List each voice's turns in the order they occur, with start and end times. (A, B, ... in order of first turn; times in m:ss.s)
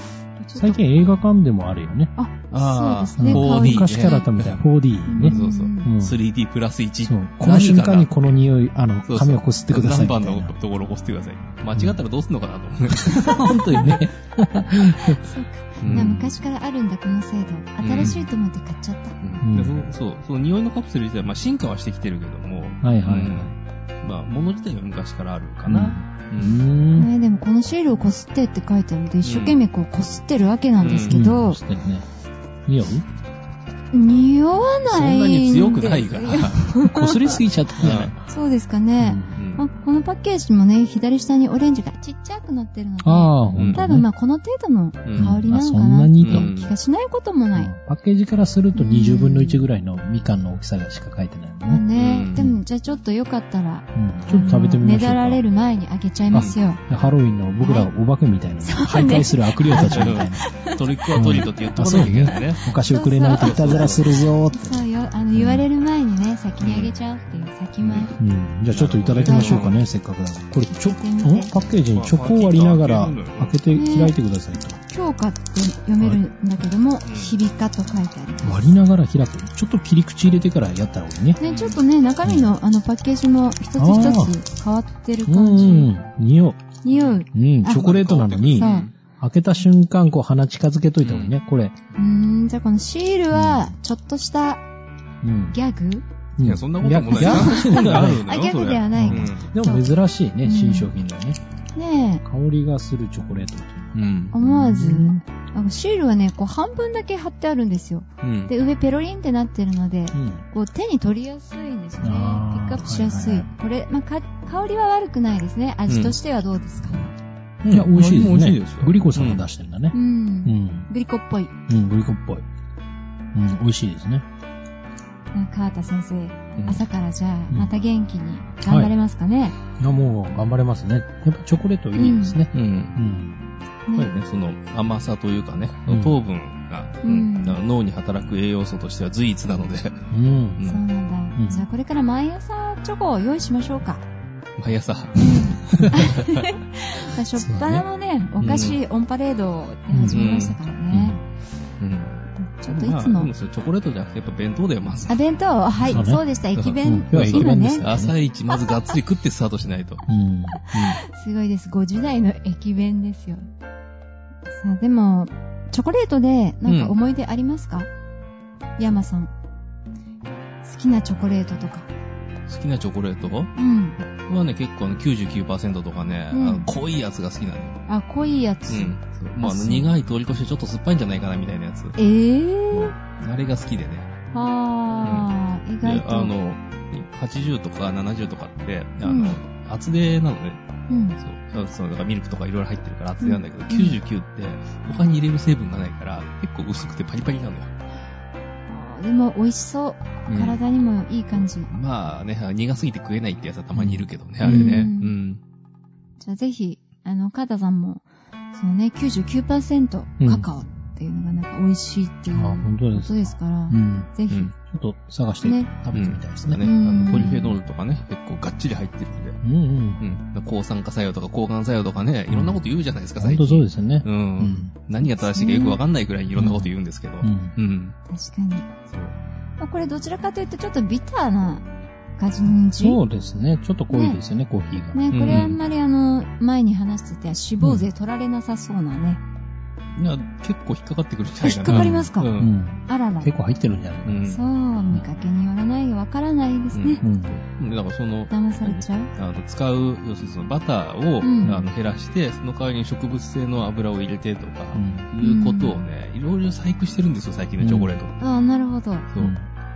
0:00.4-0:00.8 A
0:00.5-0:02.1 B
0:00.8-0:01.2 C
0:02.2-0:04.3 A
0:02.5-0:04.6 C
0:03.2-0:06.2 B
0:05.1-0:05.9 A
0:05.2-0:08.4 C
0:07.0-0:10.5 B
0:09.1-0:14.1 C
0:11.7-0:12.0 B
0:13.0-0:15.2 B
0:15.1-0:19.2 A
0:15.8-0:16.2 C
0:15.9-0:16.3 B
0:17.8-0:18.2 C
0:18.0-0:18.2 B
0:19.2-0:26.6 C
0:19.4-0:19.8 B
0:22.8-0:23.6 B
0:25.7-0:27.1 B
0:26.9-0:31.6 A
0:29.2-0:29.6 C
0:30.8-0:31.2 C
0:31.1-0:32.1 B
0:32.6-0:33.0 B
0:33.9-0:37.4 A
0:34.8-0:36.7 C
0:36.8-0:38.3 B
0:37.8-0:38.1 C
0:38.3-0:47.7 A
0:39.0-0:39.3 B
0:39.3-0:39.6 C
0:43.0-0:44.1 B
0:43.5-0:43.8 C
0:45.0-0:45.4 C
0:45.2-0:46.5 B
0:46.2-0:46.7 C
0:47.6-0:52.6 B
0:48.7-0:49.7 A
0:51.6-0:56.8 A
0:51.9-0:52.4 C
0:53.9-0:55.4 B
0:56.3-0:57.1 C
0:56.3-1:00.5 B
0:57.6-0:57.9 A
0:58.6-1:08.1 A
0:59.7-1:02.6 C
1:01.1-1:05.6 B
1:03.3-1:04.3 C
1:06.6-1:06.9 C
1:07.8-1:08.1 C
1:08.2-1:14.8 B
1:08.7-1:09.8 C
1:09.2-1:09.7 A
1:10.6-1:11.5 A
1:11.9-1:13.6 C
1:13.7-1:14.2 A
1:14.9-1:18.6 A
1:17.0-1:17.4 C
1:18.4-1:21.4 B
1:21.4-1:25.8 A
1:21.4-1:21.8 C
1:22.2-1:22.5 B
1:23.8-1:24.4 B
1:25.2-1:26.6 B
1:25.5-1:25.9 C
1:26.8-1:27.8 A
1:26.9-1:28.9 C
1:27.3-1:31.8 B
1:28.6-1:28.9 A
1:31.0-1:31.3 C
1:31.9-1:34.6 A
1:33.3-1:33.7 B
1:35.2-1:35.6 B
1:35.5-1:36.0 A
1:36.4-1:38.2 B
1:36.4-1:39.5 C
1:37.1-1:39.9 A
1:38.9-1:41.4 B
1:40.4-1:40.9 A
1:41.7-1:42.2 A
1:42.2-1:45.2 B
1:43.9-1:44.3 C
1:44.3-1:57.1 A
1:48.2-1:48.5 C
1:50.1-1:50.4 B
1:52.0-1:53.5 B
1:55.9-1:56.2 C
1:57.6-1:59.4 C
1:57.7-2:00.9 B
1:59.9-2:01.5 A
2:01.7-2:02.4 B
2:03.3-2:04.2 B
2:05.3-2:09.6 A
2:06.6-2:06.8 C
2:08.6-2:08.9 B
2:09.8-2:13.4 B
2:11.9-2:12.4 A
2:12.5-2:13.0 C
2:13.9-2:14.2 A
2:14.0-2:20.0 C
2:15.9-2:16.2 B
2:17.0-2:17.6 A
2:20.1-2:20.7 B
2:20.6-2:24.0 A
2:21.4-2:21.6 B
2:24.6-2:26.5 C
2:25.2-2:31.2 A
2:25.6-2:26.0 B
2:27.4-2:27.8 B
2:28.4-2:28.8 C
2:29.9-2:30.2 B
2:30.1-2:30.6 C
2:30.9-2:31.2 B
2:31.8-2:35.2 C
2:32.4-2:33.3 A
2:35.1-2:37.9 A
2:35.8-2:40.0 C
2:35.9-2:36.2 B
2:36.8-2:38.1 B
2:38.6-2:38.9 A
2:40.1-2:40.6 B
2:40.6-2:43.5 A
2:40.7-2:41.0 C
2:44.5-2:47.9 A
2:46.6-2:47.0 C
2:48.8-2:49.3 A
2:50.6-2:51.9 A
2:52.5-2:53.5 C
2:53.6-2:54.0 A
2:54.2-2:57.8 C
2:56.3-2:56.7 A
2:57.9-2:59.9 A
2:58.7-3:02.0 C
3:02.0-3:02.9 A
3:02.7-3:04.1 C
3:04.3-3:06.3 A
3:05.0-3:05.3 C
3:05.8-3:10.6 C
3:09.0-3:09.4 A
3:10.9-3:11.2 A
3:11.2-3:17.7 C
3:13.2-3:14.0 A
3:18.7-3:21.7 A
3:20.3-3:20.6 C
3:21.3-3:25.4 C
3:23.7-3:24.9 B
3:24.4-3:25.1 A
3:26.2-3:34.5 A
3:30.2-3:30.5 B
3:32.3-3:37.1 B
3:35.4-3:35.7 A
3:35.9-3:39.4 C
3:36.6-3:37.6 A
3:39.4-3:40.0 B
3:40.0-3:48.0 C
3:42.3-3:42.6 B
3:43.2-3:44.7 B
3:45.0-3:45.8 A
3:46.4-3:47.5 B
3:48.1-3:48.7 A
3:48.9-3:49.1 C
3:49.6-3:53.0 A
3:52.8-3:55.5 B
3:53.9-3:54.2 A
3:54.9-3:59.2 A
3:55.1-3:55.6 C
3:57.6-3:57.9 B
3:59.9-4:02.5 C
4:01.4-4:02.3 A
4:01.7-4:04.2 B
4:02.9-4:03.3 A
4:04.0-4:04.4 C
4:04.3-4:07.0 A
4:06.7-4:18.2 C
4:07.0-4:07.4 B
4:08.3-4:09.1 A
4:11.2-4:11.6 A
4:11.4-4:11.7 B
4:14.7-4:15.1 B
4:15.2-4:15.8 A
4:17.6-4:18.0 B
4:18.2-4:19.1 A
4:19.2-4:19.5 B